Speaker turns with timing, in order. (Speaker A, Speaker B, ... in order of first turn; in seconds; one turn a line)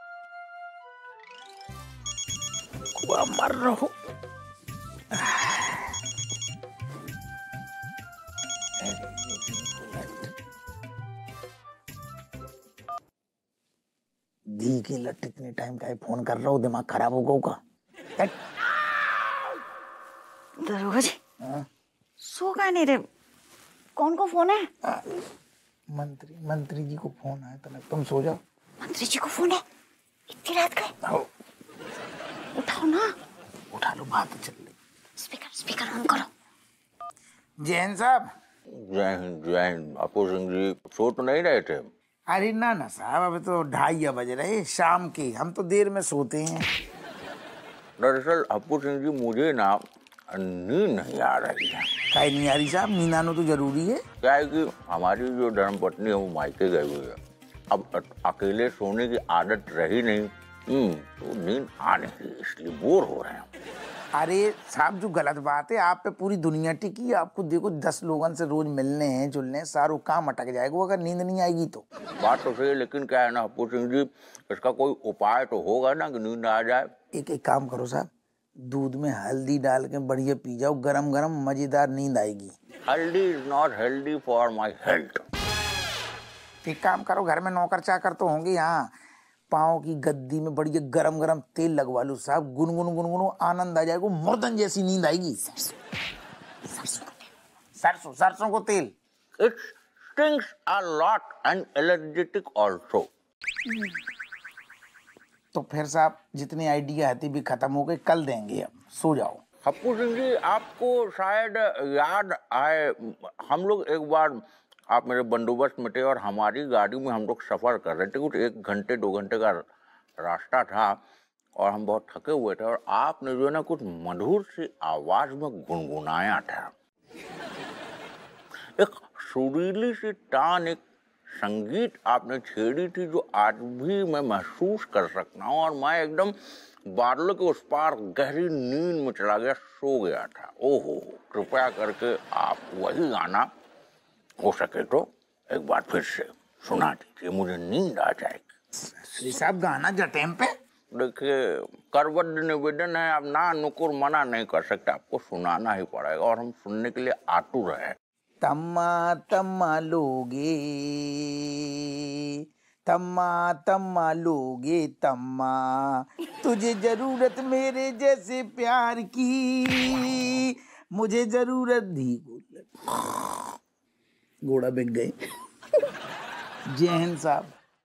Speaker A: 3.0-3.9
Speaker A: 5.2-5.8
Speaker A: 8.8-10.3
Speaker A: 14.5-17.6
Speaker B: 20.6-21.2
Speaker B: 22.2-23.0
Speaker B: 24.0-24.7
Speaker A: 24.8-25.2
Speaker A: 25.9-28.4
Speaker B: 28.8-29.6
Speaker B: 30.3-30.9
Speaker B: 32.6-33.1
Speaker A: 33.7-34.7
Speaker B: 35.2-36.3
Speaker A: 37.6-38.2
Speaker C: 38.7-41.9
Speaker A: 42.3-46.7
Speaker C: 48.0-49.8
Speaker C: 50.3-51.9
Speaker A: 52.1-54.0
Speaker C: 54.2-57.2
Speaker C: 57.7-63.5
Speaker A: 64.2-71.8
Speaker C: 72.2-76.9
Speaker A: 77.1-78.1
Speaker A: 78.7-82.5
Speaker C: 82.9-85.2
Speaker A: 86.6-88.8
Speaker A: 89.5-95.7
Speaker A: 97.8-98.9
Speaker C: 99.4-103.1
Speaker A: 105.5-109.4
Speaker C: 109.6-114.4
Speaker C: 114.9-119.6
Speaker C: 120.2-121.0
Speaker C: 121.6-126.7
Speaker C: 128.8-130.8
Speaker C: 131.4-136.3
Speaker C: 136.9-143.5
Speaker C: 144.4-148.5
Speaker A: 149.0-150.5
Speaker C: 150.9-158.0
Speaker A: 158.4-162.2
Speaker A: 162.9-172.7
Speaker A: 174.4-175.1
Speaker A: 176.7-177.5